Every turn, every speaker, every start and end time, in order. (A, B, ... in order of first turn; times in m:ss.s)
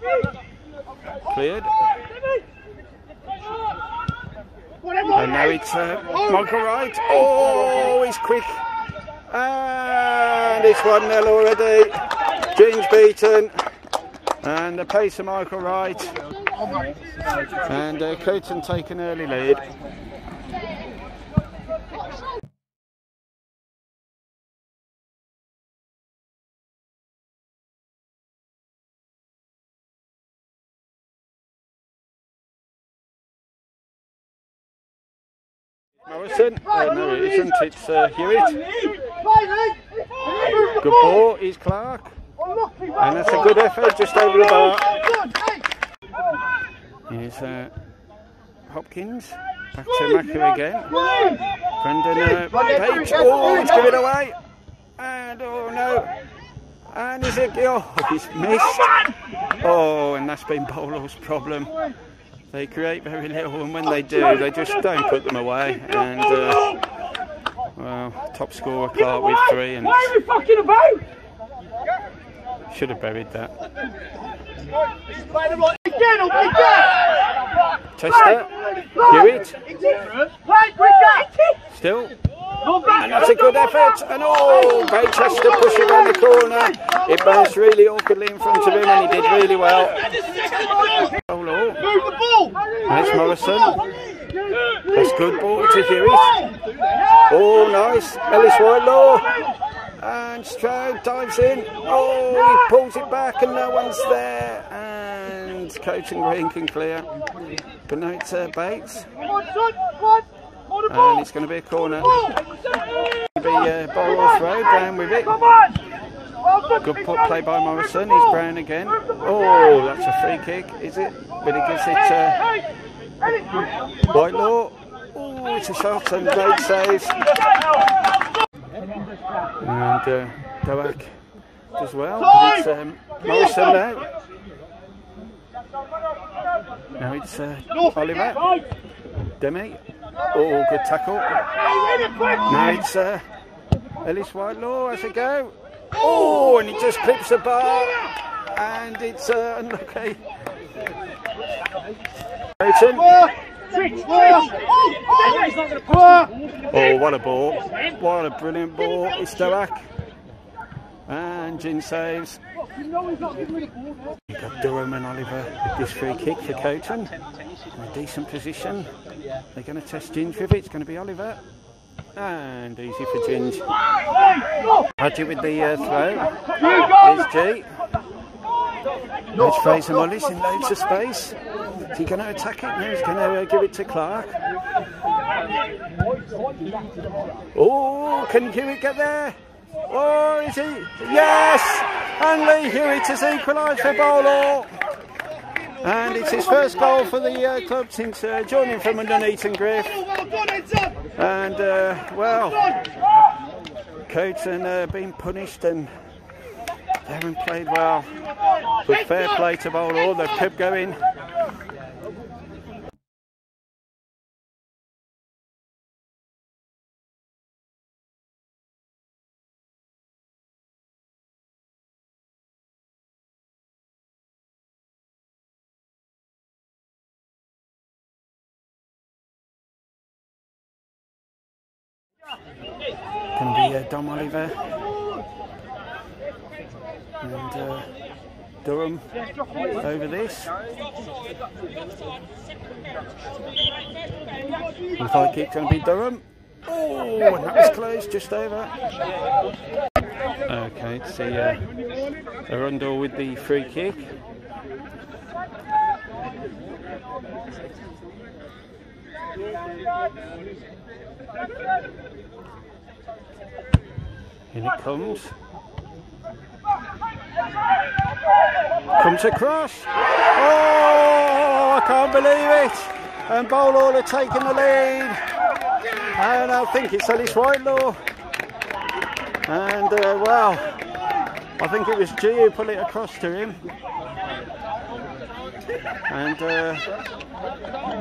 0:01.2-0:01.8 A
0:05.1-0:08.6 A
0:09.3-0:13.6 A
0:14.4-0:16.2 A
0:17.6-0:19.7 A
0:36.0-0:38.6 A
0:38.9-0:40.8 B
0:40.7-0:42.2 A
0:42.9-0:45.2 A
0:45.2-0:45.5 B
0:47.1-0:47.7 A
0:48.7-0:51.2 A
0:51.1-0:51.4 B
0:51.8-0:54.4 A
0:55.0-0:56.1 A
0:56.9-1:01.7 A
1:02.5-1:06.8 A
1:07.8-1:10.2 A
1:10.2-1:11.0 B
1:12.7-1:13.5 A
1:15.7-1:17.0 B
1:17.9-1:19.6 A
1:20.1-1:21.5 B
1:21.6-1:22.2 A
1:22.8-1:30.1 A
1:31.1-1:31.9 A
1:32.1-1:32.6 B
1:32.8-1:33.8 A
1:34.8-1:36.4 A
1:37.2-1:39.3 A
1:40.0-1:47.1 A
1:47.9-1:49.1 A
1:49.5-1:50.0 B
1:50.8-1:52.3 A
1:53.3-1:55.4 A
1:56.8-2:02.5 A
2:04.1-2:07.3 A
2:09.6-2:11.2 A
2:11.7-2:14.1 A
2:17.0-2:18.5 A
2:19.4-2:21.4 A
2:22.4-2:23.2 A
2:24.0-2:30.2 A
2:32.6-2:33.2 A
2:33.8-2:36.3 B
2:36.7-2:39.9 A
2:41.1-2:42.4 A
2:44.3-2:47.1 A
2:47.7-2:48.9 A
2:49.5-2:51.4 A
2:52.1-2:53.7 A
2:55.0-2:57.7 A
2:59.3-3:01.4 A
3:01.9-3:04.4 A
3:07.5-3:09.3 A
3:09.9-3:14.7 A
3:15.8-3:20.1 A
3:21.2-3:22.8 A
3:24.0-3:25.9 A
3:27.0-3:28.2 A
3:28.8-3:31.0 A
3:53.3-3:54.7 A
3:57.2-3:57.9 A
3:58.6-3:59.0 A
3:59.7-4:00.5 A
4:05.0-4:08.7 A
4:10.4-4:11.6 A
4:12.5-4:14.1 A
4:24.5-4:25.3 A
4:29.0-4:35.2 A
4:36.1-4:38.0 A
4:39.4-4:40.8 A
4:41.6-4:43.6 A
4:46.1-4:46.9 A